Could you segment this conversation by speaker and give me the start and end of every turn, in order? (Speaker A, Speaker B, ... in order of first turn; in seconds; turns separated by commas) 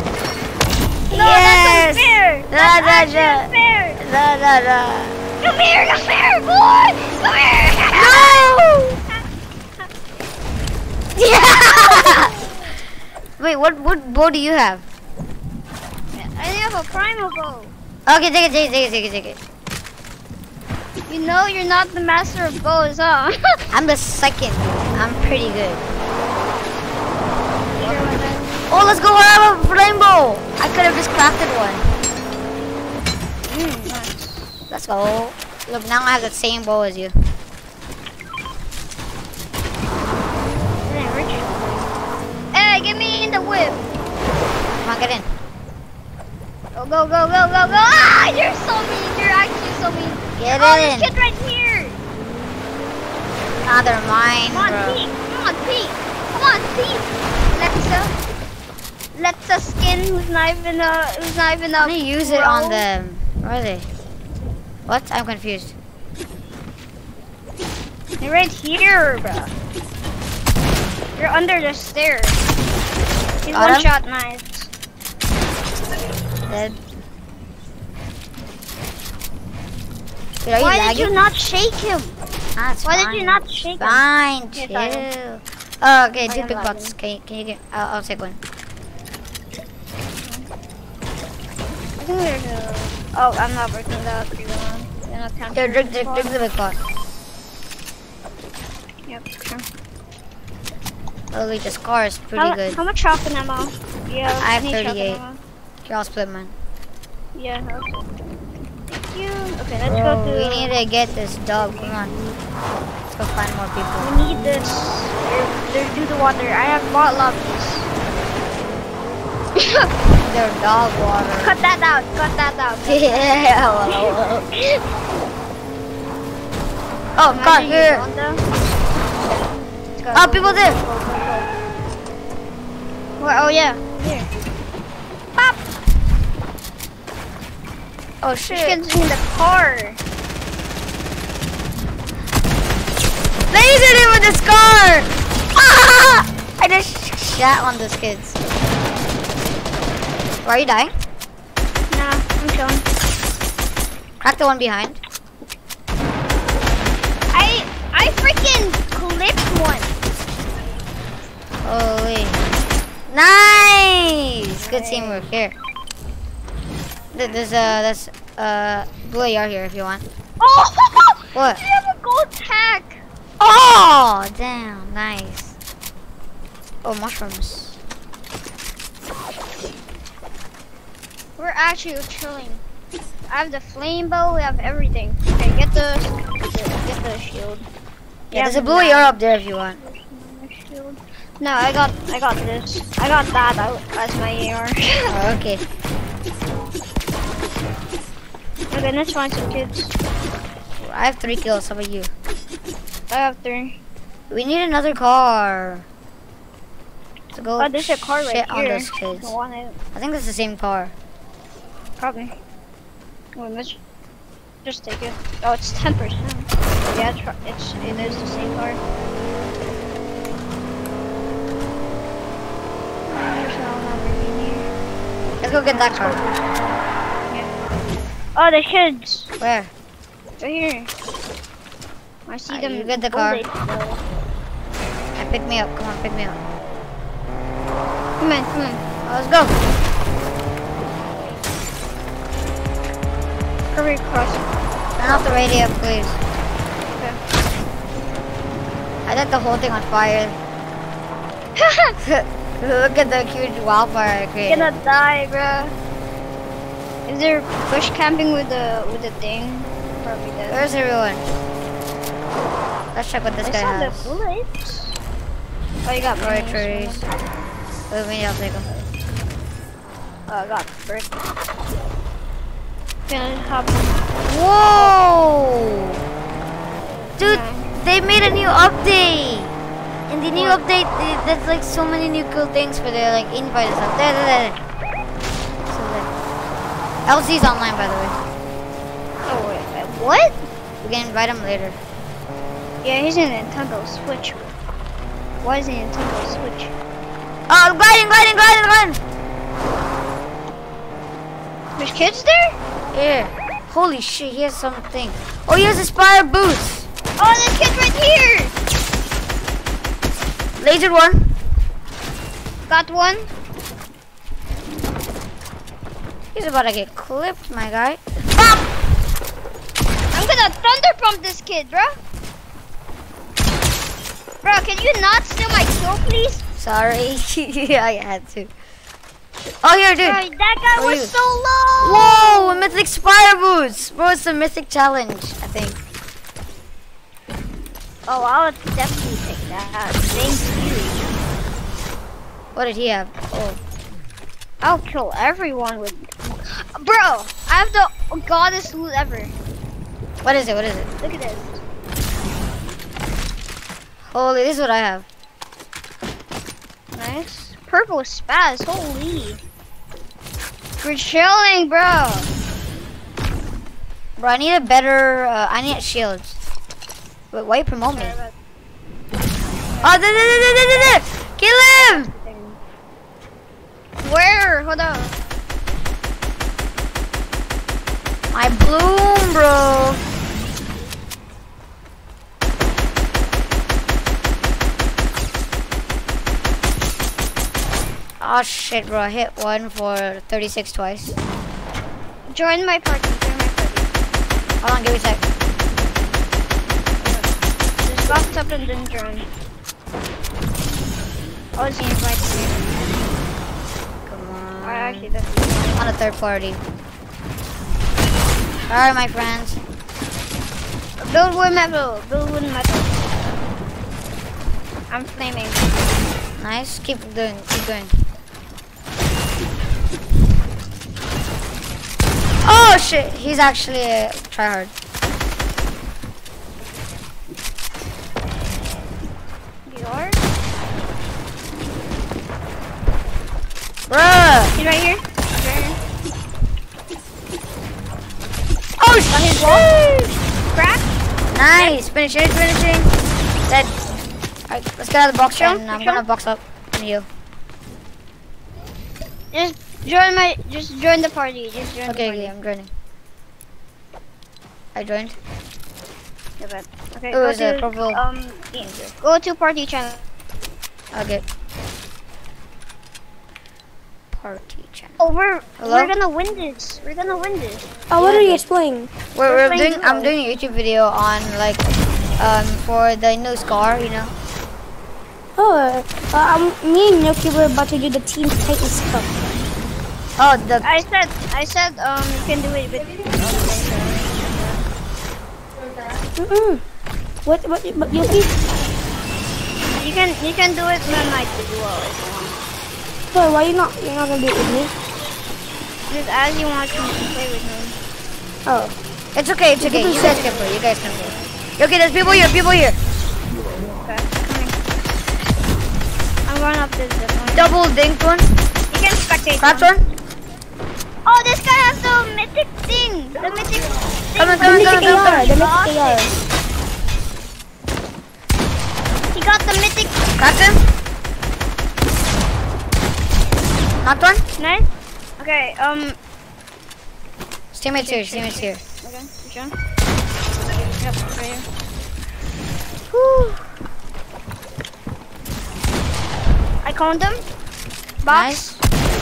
Speaker A: 1.1-5.2, Speaker B: 1.1-4.0, Speaker B: 5.4-9.2, Speaker A: 7.9-9.0, Speaker A: 11.1-12.3, Speaker B: 11.7-12.5, Speaker A: 13.4-14.8, Speaker B: 16.1-17.7, Speaker A: 18.1-19.4, Speaker B: 21.1-23.3, Speaker A: 23.7-25.9, Speaker B: 27.7-28.6, Speaker A: 28.7-31.8, Speaker B: 33.5-34.6, Speaker A: 34.7-37.1, Speaker B: 40.9-41.7, Speaker B: 42.5-43.9, Speaker A: 44.8-45.3, Speaker B: 46.7-52.0, Speaker A: 50.3-51.1, Speaker A: 53.6-55.0, Speaker B: 54.5-58.1, Speaker B: 59.1-62.8, Speaker A: 61.8-63.9, Speaker A: 64.8-65.7, Speaker B: 68.2-69.5, Speaker B: 71.2-72.4, Speaker B: 73.4-74.7, Speaker A: 73.5-73.9, Speaker A: 76.5-76.8, Speaker A: 80.4-81.1, Speaker B: 80.6-82.2, Speaker A: 82.5-88.4, Speaker B: 82.8-85.1, Speaker B: 86.2-86.9, Speaker B: 90.2-90.5, Speaker B: 92.0-96.3, Speaker A: 95.5-96.8, Speaker B: 99.1-99.6, Speaker A: 101.3-102.8, Speaker B: 102.4-105.4, Speaker A: 104.4-105.2, Speaker A: 105.8-106.5, Speaker B: 107.3-108.1, Speaker B: 108.9-110.7, Speaker A: 109.8-112.2, Speaker A: 113.1-114.1, Speaker B: 114.0-117.9, Speaker A: 120.2-121.6, Speaker B: 121.4-124.8, Speaker A: 122.8-124.5, Speaker A: 127.2-128.1, Speaker B: 127.3-128.4, Speaker B: 130.0-131.5, Speaker A: 130.1-130.8, Speaker B: 133.2-134.3, Speaker A: 138.2-138.8, Speaker B: 138.5-140.0, Speaker A: 143.5-148.4, Speaker A: 150.4-150.9, Speaker B: 151.9-152.8, Speaker A: 154.2-155.0, Speaker B: 157.3-159.9, Speaker A: 161.6-162.4, Speaker A: 163.1-165.5, Speaker B: 164.5-165.2, Speaker A: 167.1-170.0, Speaker B: 167.3-167.8, Speaker B: 170.4-173.0, Speaker A: 171.3-171.6, Speaker A: 173.4-175.6, Speaker A: 176.8-177.8, Speaker B: 181.4-182.6, Speaker B: 183.3-187.7, Speaker B: 188.3-189.2, Speaker A: 188.3-189.8, Speaker B: 189.7-195.0, Speaker A: 195.1-195.6, Speaker B: 198.7-199.9, Speaker A: 200.8-202.1, Speaker B: 203.1-203.7, Speaker A: 204.3-205.8, Speaker A: 207.3-209.3, Speaker B: 207.6-209.8, Speaker A: 209.9-210.9, Speaker B: 212.0-212.3, Speaker B: 213.3-213.8, Speaker B: 214.6-218.8, Speaker B: 223.1-224.7, Speaker A: 225.4-226.2, Speaker B: 225.6-226.8, Speaker B: 227.3-227.6, Speaker B: 228.3-229.3, Speaker A: 229.4-229.7, Speaker B: 230.4-230.9, Speaker B: 232.3-234.0, Speaker A: 232.5-233.4, Speaker A: 235.2-236.5, Speaker B: 238.2-238.8, Speaker A: 239.0-239.6, Speaker B: 243.7-244.4, Speaker A: 245.0-246.2, Speaker B: 245.0-245.4, Speaker A: 249.1-250.4, Speaker B: 251.6-251.9, Speaker A: 252.0-254.9, Speaker B: 254.4-255.7, Speaker B: 257.1-260.6, Speaker A: 260.5-261.2, Speaker A: 262.9-264.2, Speaker B: 263.4-264.9, Speaker B: 265.8-267.1, Speaker A: 266.2-267.1, Speaker A: 267.9-268.8, Speaker B: 270.3-271.3, Speaker B: 273.1-273.9, Speaker A: 274.2-276.0, Speaker A: 277.2-279.5, Speaker B: 277.2-277.7, Speaker A: 280.1-284.6, Speaker B: 280.3-280.6, Speaker A: 285.7-286.1, Speaker A: 287.1-288.2, Speaker B: 289.3-290.4, Speaker A: 290.8-291.8, Speaker B: 292.8-294.4, Speaker B: 295.4-296.7, Speaker A: 297.5-299.0, Speaker B: 301.8-302.6, Speaker A: 302.9-306.9, Speaker B: 307.2-308.5, Speaker A: 310.6-311.3, Speaker B: 312.7-313.3, Speaker A: 316.3-318.7, Speaker B: 320.1-321.9, Speaker B: 324.4-326.4, Speaker A: 326.6-328.5, Speaker A: 329.6-330.2, Speaker B: 330.0-332.8, Speaker A: 330.8-331.1, Speaker A: 331.8-335.8, Speaker B: 338.1-341.1, Speaker A: 342.5-343.6, Speaker B: 344.6-349.3, Speaker A: 350.2-350.9, Speaker B: 351.0-351.6, Speaker A: 354.0-355.1, Speaker B: 356.9-359.4, Speaker B: 360.8-362.3, Speaker A: 364.2-366.4, Speaker A: 367.3-368.2, Speaker B: 367.9-368.3, Speaker B: 369.7-370.0, Speaker A: 369.8-372.1, Speaker B: 371.7-372.6, Speaker B: 374.0-375.2, Speaker A: 378.3-380.0, Speaker A: 388.2-391.1, Speaker B: 392.3-393.9, Speaker A: 394.6-395.2, Speaker B: 397.0-397.3, Speaker B: 397.8-399.2, Speaker B: 401.6-402.7, Speaker A: 404.1-405.1, Speaker B: 404.6-405.9, Speaker A: 405.8-406.6, Speaker A: 408.7-409.6, Speaker B: 411.0-413.4, Speaker B: 414.9-415.8, Speaker A: 416.4-417.9, Speaker A: 422.4-424.7, Speaker B: 429.6-430.2, Speaker A: 433.9-434.6, Speaker B: 434.6-435.8, Speaker A: 438.8-440.1, Speaker B: 439.1-439.8, Speaker B: 440.5-440.9, Speaker A: 441.3-442.9, Speaker B: 441.5-441.8, Speaker A: 443.5-443.7, Speaker A: 444.5-447.1, Speaker B: 445.3-446.0, Speaker B: 449.3-452.3, Speaker A: 451.9-452.7, Speaker A: 454.7-455.2, Speaker B: 456.4-460.0, Speaker A: 457.1-458.0, Speaker A: 458.6-458.9, Speaker A: 460.9-461.2, Speaker A: 464.1-465.0, Speaker B: 465.0-467.8, Speaker A: 465.6-465.9, Speaker C: 467.9-468.9, Speaker A: 468.0-468.4, Speaker A: 469.1-471.6, Speaker B: 469.2-470.1, Speaker A: 472.2-474.1, Speaker C: 475.4-479.3, Speaker A: 480.2-480.7, Speaker B: 480.6-484.6, Speaker C: 486.2-486.6, Speaker C: 487.2-488.3, Speaker B: 489.7-492.4, Speaker C: 493.1-494.7, Speaker B: 495.9-497.8, Speaker C: 498.4-498.7, Speaker A: 499.1-502.8, Speaker C: 499.6-500.2, Speaker B: 503.8-504.5, Speaker B: 506.2-507.5, Speaker A: 507.3-508.3, Speaker B: 508.7-509.7, Speaker A: 509.4-509.9, Speaker B: 511.1-516.2, Speaker A: 514.2-515.2, Speaker C: 514.4-516.1, Speaker B: 519.1-519.9, Speaker A: 520.2-520.6, Speaker A: 523.8-524.2, Speaker B: 524.4-524.7, Speaker B: 525.2-526.0, Speaker A: 527.5-528.6, Speaker B: 527.8-529.5, Speaker B: 530.6-531.5, Speaker A: 532.9-533.4, Speaker B: 536.6-537.2, Speaker A: 538.0-538.6, Speaker B: 538.0-538.6